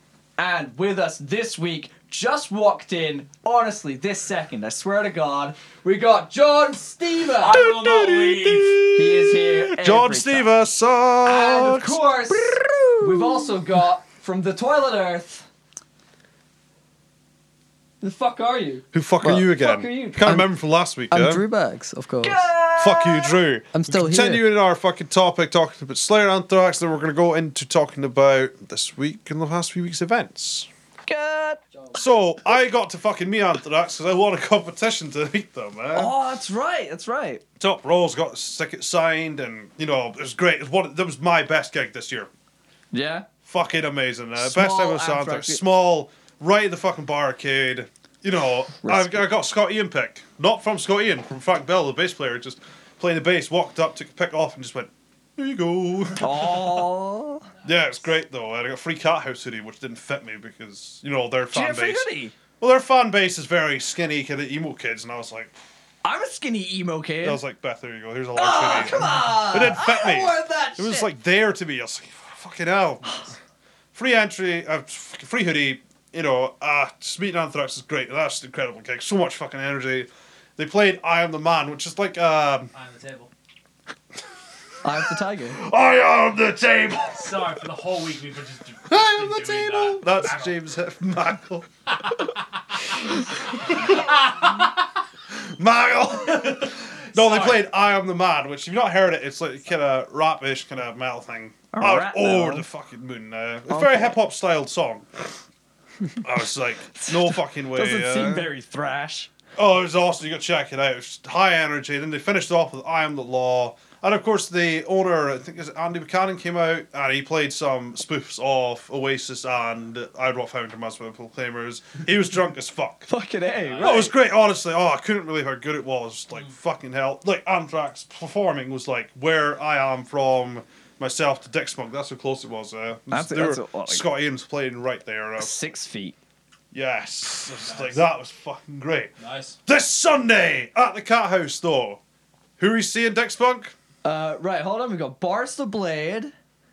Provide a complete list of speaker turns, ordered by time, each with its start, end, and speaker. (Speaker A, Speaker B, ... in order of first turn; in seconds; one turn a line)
Speaker A: 0.4-7.6
Speaker B: 7.4-8.9
Speaker C: 7.5-13.5
Speaker A: 8.9-10.5
Speaker A: 11.2-15.5
Speaker A: 18.0-20.3
Speaker C: 18.9-21.4
Speaker D: 21.1-22.5
Speaker A: 22.2-23.4
Speaker C: 22.8-30.7
Speaker D: 23.7-24.4
Speaker A: 31.1-31.6
Speaker C: 31.9-36.1
Speaker A: 35.9-37.4
Speaker C: 37.6-42.3
Speaker A: 42.9-43.3
Speaker C: 43.4-56.9
Speaker A: 44.4-45.6
Speaker A: 48.8-49.3
Speaker A: 56.2-57.5
Speaker C: 57.6-62.1
Speaker A: 61.5-62.3
Speaker C: 62.6-65.6
Speaker A: 66.0-67.4
Speaker C: 67.2-73.1
Speaker A: 68.3-71.1
Speaker C: 73.9-82.7
Speaker B: 82.7-83.3
Speaker A: 84.8-85.6
Speaker C: 85.0-87.6
Speaker B: 87.1-90.6
Speaker C: 88.9-91.7
Speaker B: 92.0-94.7
Speaker C: 93.7-94.0
Speaker C: 95.3-105.4
Speaker B: 96.4-97.6
Speaker A: 101.7-102.7
Speaker A: 103.7-104.2
Speaker C: 106.2-108.5
Speaker A: 107.0-109.3
Speaker C: 109.5-123.1
Speaker A: 123.1-124.1
Speaker B: 123.6-124.1
Speaker C: 123.8-135.6
Speaker A: 133.1-134.1
Speaker A: 135.4-136.2
Speaker C: 136.7-139.1
Speaker B: 137.6-138.0
Speaker B: 139.2-139.6
Speaker C: 139.7-142.0
Speaker C: 142.6-143.7
Speaker A: 144.0-146.3